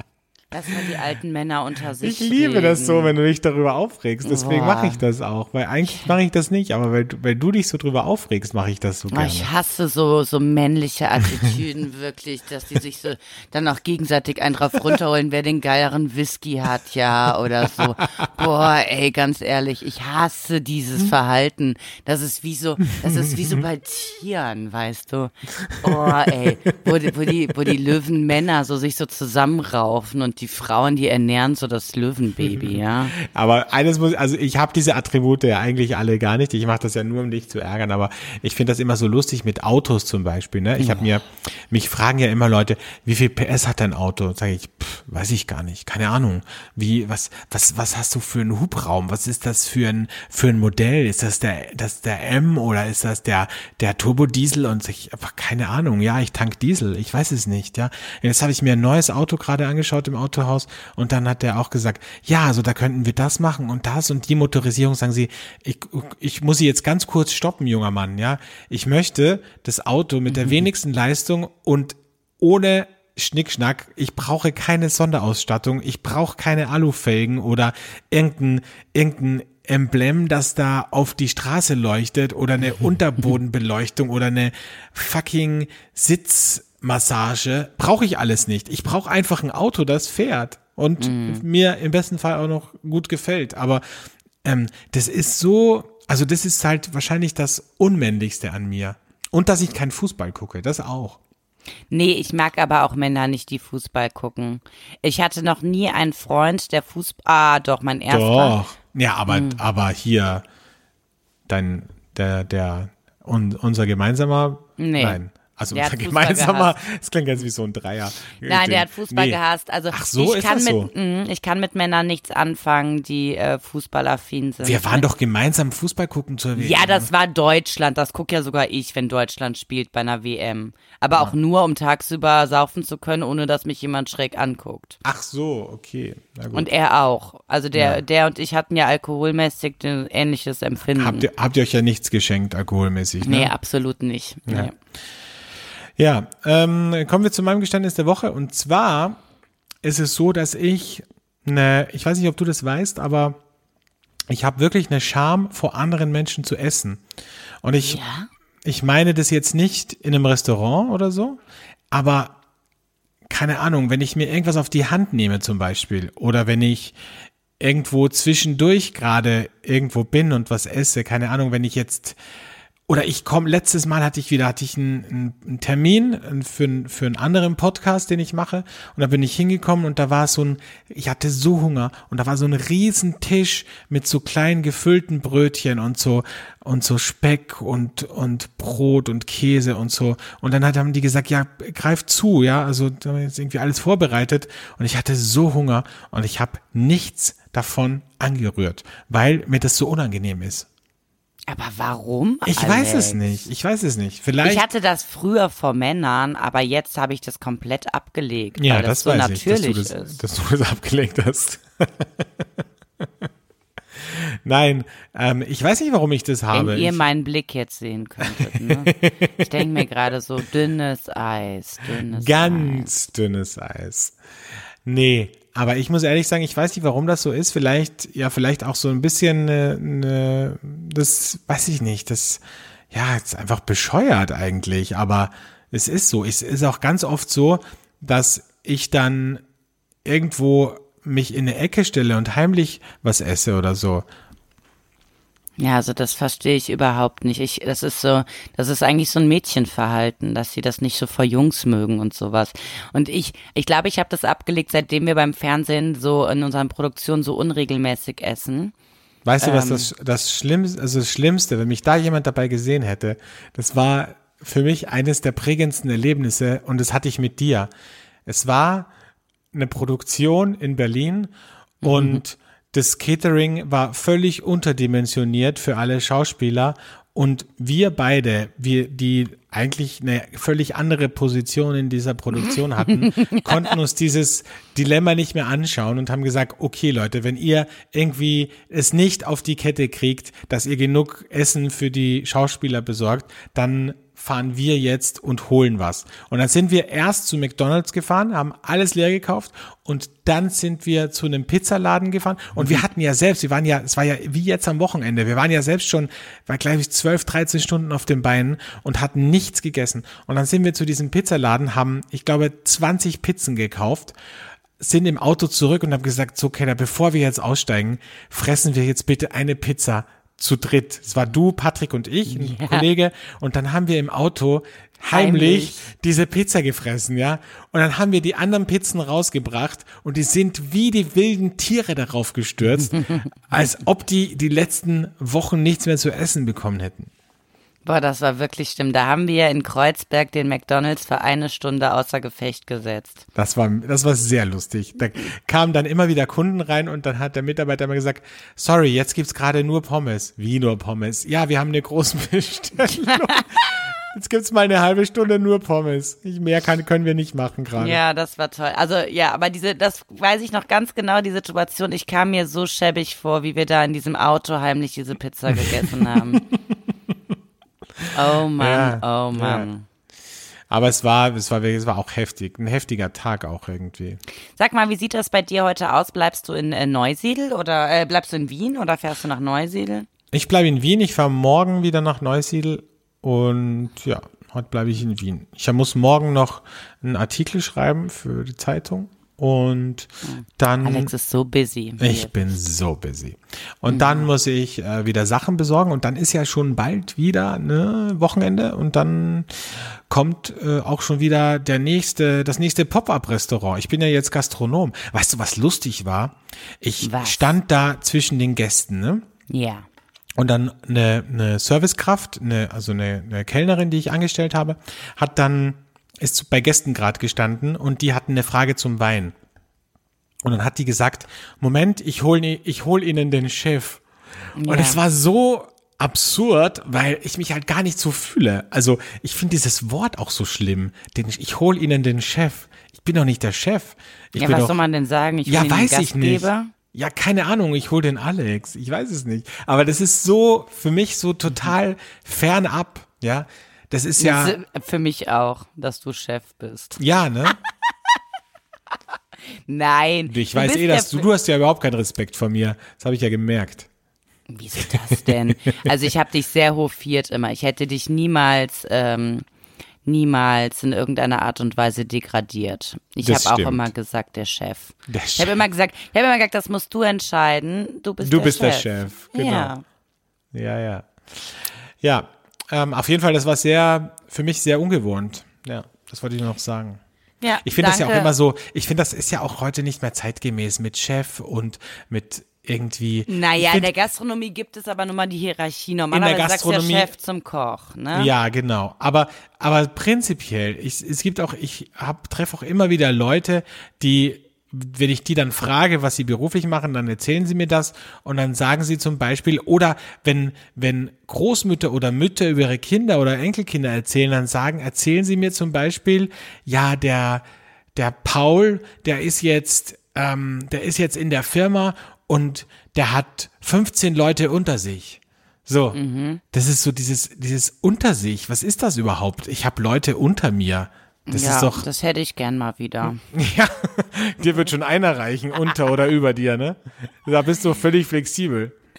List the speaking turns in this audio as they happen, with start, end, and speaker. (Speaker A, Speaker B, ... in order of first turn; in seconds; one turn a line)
Speaker A: 0.5-3.1
Speaker B: 2.0-9.5
Speaker A: 4.2-5.0
Speaker A: 9.1-33.1
Speaker B: 32.4-93.8
Speaker A: 40.8-41.1
Speaker A: 70.3-70.6
Speaker A: 91.0-91.4
Speaker B: 94.4-101.2
Speaker A: 101.9-108.6
Speaker B: 108.1-110.4
Speaker A: 109.3-109.6
Speaker B: 111.5-119.4
Speaker A: 114.8-115.2
Speaker A: 115.7-116.7
Speaker A: 118.4-125.0
Speaker B: 119.9-120.9
Speaker B: 124.6-127.1
Speaker A: 126.5-135.0
Speaker B: 135.0-136.7
Speaker A: 136.5-141.3
Speaker B: 137.7-138.0
Speaker B: 140.9-143.5
Speaker A: 143.2-144.7
Speaker B: 144.5-144.7
Speaker B: 146.0-149.2
Speaker B: 149.8-153.4
Speaker B: 154.3-157.0
Speaker B: 157.6-158.0
Speaker A: 157.8-158.3
Speaker B: 158.6-161.4
Speaker B: 161.9-162.4
Speaker B: 163.3-166.9
Speaker B: 167.6-172.2
Speaker B: 172.9-200.7
Speaker A: 201.5-203.2
Speaker B: 202.4-204.7
Speaker A: 204.4-210.2
Speaker B: 208.6-212.2
Speaker B: 214.0-217.0
Speaker A: 216.5-222.9
Speaker B: 218.2-219.9
Speaker B: 222.1-224.2
Speaker B: 224.8-239.4
Speaker B: 240.0-244.1
Speaker A: 245.6-258.7
Speaker B: 259.2-267.7
Speaker A: 259.4-259.9
Speaker B: 268.2-268.9
Speaker B: 269.5-314.1
Speaker A: 271.8-272.2
Speaker A: 282.9-283.5
Speaker B: 314.8-337.1
Speaker A: 322.3-322.9
Speaker A: 325.1-325.9
Speaker A: 333.0-333.2
Speaker A: 337.8-343.2
Speaker B: 343.3-358.0
Speaker A: 357.8-366.4
Speaker B: 368.0-369.7
Speaker A: 368.1-369.8
Speaker B: 370.7-374.2
Speaker A: 374.6-380.1
Speaker B: 380.3-391.1
Speaker A: 390.2-392.3
Speaker B: 392.0-409.2
Speaker A: 393.9-394.3
Speaker A: 407.0-407.5
Speaker A: 409.5-409.9
Speaker B: 410.4-419.3
Speaker B: 420.4-424.0
Speaker A: 424.6-425.0
Speaker B: 424.6-434.8
Speaker A: 434.4-436.7
Speaker B: 435.4-444.6
Speaker A: 444.2-447.0
Speaker B: 447.0-447.6
Speaker A: 449.7-451.3
Speaker B: 450.3-453.9
Speaker A: 454.5-459.4
Speaker B: 455.2-455.8
Speaker A: 460.0-469.8
Speaker B: 463.2-463.9
Speaker B: 465.1-465.6
Speaker B: 468.2-469.7
Speaker B: 470.5-477.0
Speaker A: 477.4-478.3
Speaker B: 477.6-483.9
Speaker A: 483.3-488.3
Speaker B: 486.1-487.1
Speaker B: 488.1-507.4
Speaker B: 507.9-516.0
Speaker A: 515.9-516.4
Speaker B: 516.5-521.9
Speaker A: 521.3-523.2
Speaker B: 523.3-528.7